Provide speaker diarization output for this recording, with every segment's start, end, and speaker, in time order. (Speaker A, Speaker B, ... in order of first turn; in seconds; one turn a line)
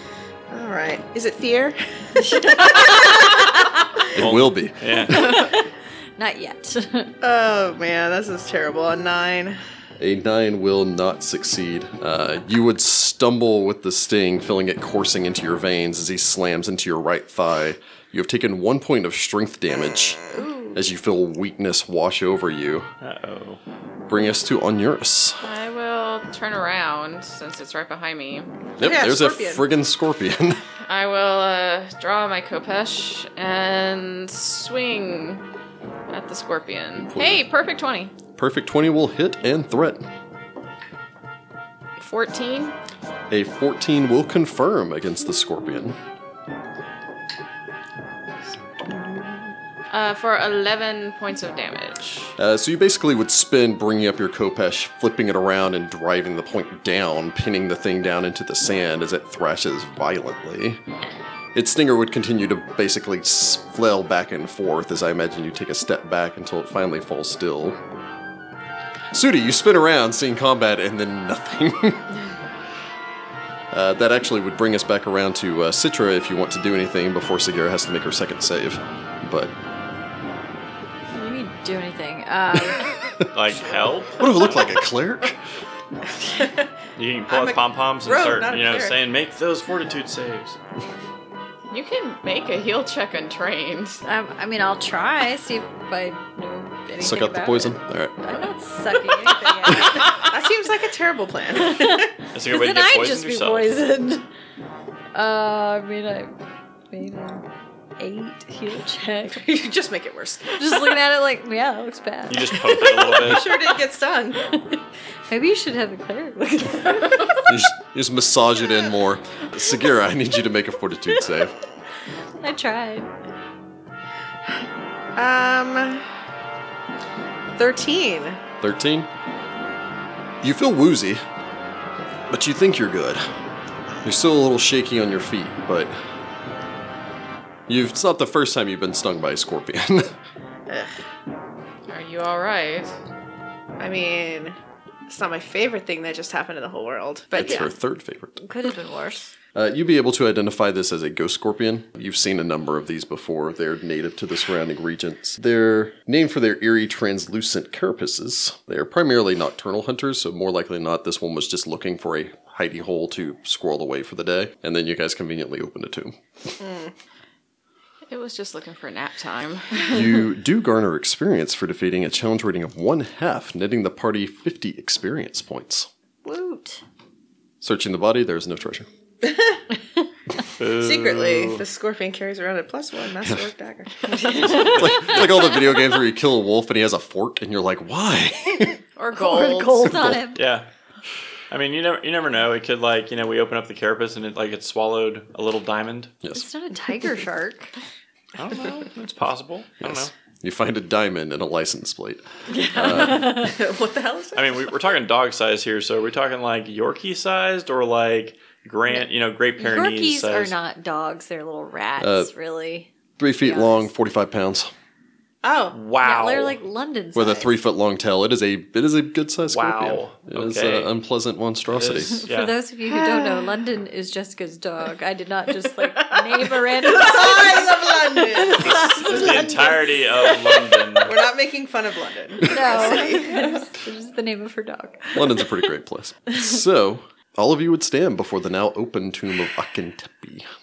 Speaker A: 0.5-3.5
Speaker B: 2.3-3.5
Speaker C: 4.1-5.4
Speaker D: 4.2-5.4
Speaker B: 5.0-7.1
Speaker A: 7.2-9.6
Speaker C: 10.0-20.2
Speaker A: 20.2-20.8
Speaker C: 20.7-22.9
Speaker D: 23.0-23.6
Speaker C: 24.1-25.4
Speaker E: 25.4-28.5
Speaker C: 28.8-30.6
Speaker A: 28.8-29.6
Speaker E: 30.9-35.4
Speaker E: 36.1-38.1
Speaker C: 37.1-37.5
Speaker C: 38.4-40.1
Speaker E: 42.0-42.8
Speaker C: 43.3-46.0
Speaker E: 49.9-52.4
Speaker C: 52.4-60.8
Speaker C: 61.5-67.8
Speaker C: 69.1-72.1
Speaker C: 73.7-79.5
Speaker B: 81.1-82.9
Speaker D: 83.3-84.7
Speaker C: 84.2-85.4
Speaker A: 86.2-86.7
Speaker D: 87.0-90.6
Speaker A: 87.3-89.0
Speaker E: 91.7-94.0
Speaker B: 94.0-100.2
Speaker C: 97.0-98.1
Speaker A: 99.7-102.1
Speaker B: 101.5-104.2
Speaker D: 102.3-103.8
Speaker B: 105.1-106.4
Speaker B: 106.9-107.5
Speaker B: 108.0-109.4
Speaker A: 109.3-110.8
Speaker B: 110.6-113.1
Speaker D: 112.3-113.6
Speaker A: 112.8-114.4
Speaker B: 114.4-117.5
Speaker C: 117.4-121.5
Speaker B: 122.4-123.1
Speaker A: 125.2-126.0
Speaker A: 127.6-128.4
Speaker C: 128.6-129.1
Speaker C: 130.4-131.2
Speaker C: 132.3-133.2
Speaker C: 134.0-136.0
Speaker C: 137.7-140.2
Speaker E: 141.9-142.9
Speaker A: 143.8-144.6
Speaker A: 145.1-147.7
Speaker C: 147.3-148.4
Speaker B: 147.3-147.7
Speaker B: 148.4-149.3
Speaker C: 149.5-166.2
Speaker A: 166.6-166.9
Speaker E: 168.1-170.0
Speaker C: 169.9-175.9
Speaker B: 176.2-176.8
Speaker C: 177.6-178.9
Speaker A: 179.2-179.6
Speaker D: 180.6-181.6
Speaker A: 180.6-184.6
Speaker B: 184.1-185.2
Speaker C: 184.4-188.8
Speaker E: 188.9-189.9
Speaker B: 189.1-190.4
Speaker C: 189.8-190.2
Speaker D: 190.3-190.7
Speaker D: 191.5-196.1
Speaker B: 196.3-197.7
Speaker D: 198.4-200.1
Speaker C: 199.8-203.5
Speaker B: 202.5-203.6
Speaker A: 203.0-204.6
Speaker D: 204.3-210.5
Speaker B: 209.6-213.9
Speaker C: 212.0-212.3
Speaker C: 213.2-214.7
Speaker A: 215.4-215.8
Speaker D: 215.7-216.6
Speaker B: 216.0-217.6
Speaker C: 217.1-222.2
Speaker D: 219.4-220.9
Speaker D: 221.7-222.5
Speaker B: 222.1-230.1
Speaker A: 222.9-223.5
Speaker A: 226.8-230.0
Speaker D: 228.6-231.2
Speaker A: 230.7-233.6
Speaker B: 232.4-235.7
Speaker C: 235.1-240.5